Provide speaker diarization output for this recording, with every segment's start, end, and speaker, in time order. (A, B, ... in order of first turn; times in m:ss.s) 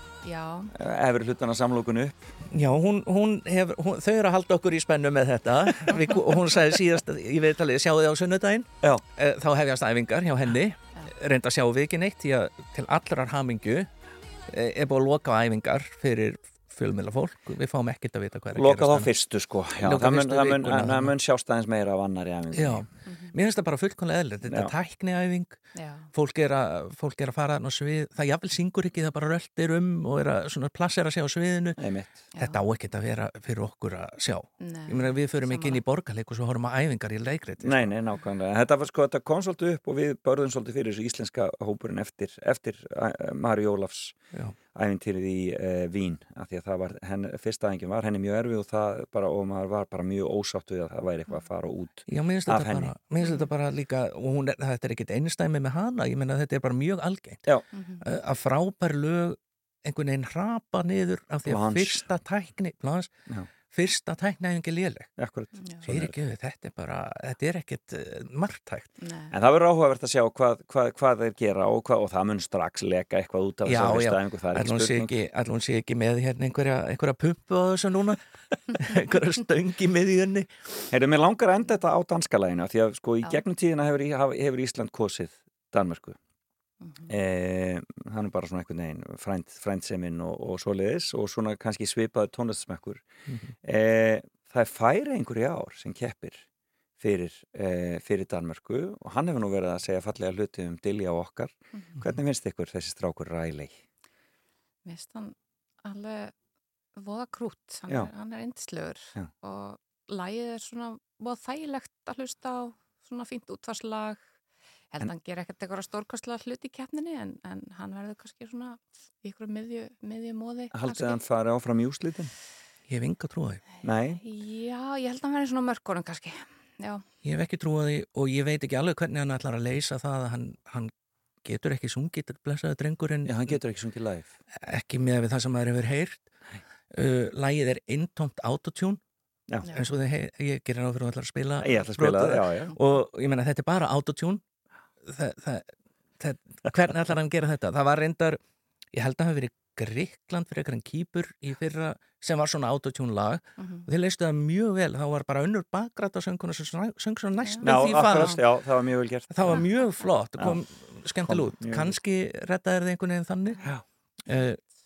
0:00.2-0:00.7 A
0:00.7-0:02.3 B
0:02.5-0:13.9 C
0:14.5-0:19.1 C
0:18.5-0:22.9 B
0:19.8-0:21.1 C
0:22.5-0:25.6 C
0:23.0-0:23.3 A
0:24.4-0:24.7 B
0:25.7-0:26.1 A
0:26.1-0:31.8 C
0:31.8-0:32.3 B
0:32.3-0:32.6 A
0:32.4-0:37.9 C
0:34.6-0:35.8 A
0:37.6-0:44.2 B
0:44.7-0:52.9 B
0:52.1-0:57.4 C
0:53.2-0:53.5 A
0:57.7-0:58.1 A
0:58.0-1:03.1 C
1:01.4-1:02.1 B
1:03.6-1:05.1 C
1:05.2-1:06.2 B
1:05.6-1:05.9 A
1:05.8-1:08.9 C
1:09.0-1:09.3 A
1:09.3-1:15.1 B
1:13.6-1:18.2 C
1:18.7-1:20.5 C
1:20.9-1:26.2 B
1:26.8-1:27.1 A
1:27.1-1:33.1 B
1:33.6-1:36.4 B
1:37.0-1:43.8 B
1:41.7-1:42.0 A
1:44.8-1:46.3 A
1:47.0-1:54.2 A
1:54.9-2:01.2 A
2:00.7-2:02.3 B
2:02.9-2:03.6 C
2:03.8-2:04.2 B
2:04.2-2:07.0 A
2:07.2-2:10.9 C
2:11.4-2:13.6 C
2:13.2-2:14.3 B
2:14.6-2:16.3 C
2:16.9-2:19.0 C
2:19.6-2:19.9 A
2:19.7-2:24.4 C
2:21.6-2:22.8 B
2:25.1-2:28.4 C
2:28.9-2:38.4 C
2:33.6-2:33.9 A
2:37.4-2:38.4 A
2:37.6-2:39.6 B
2:39.3-2:43.6 C
2:41.2-2:42.0 B
2:44.3-2:44.6 C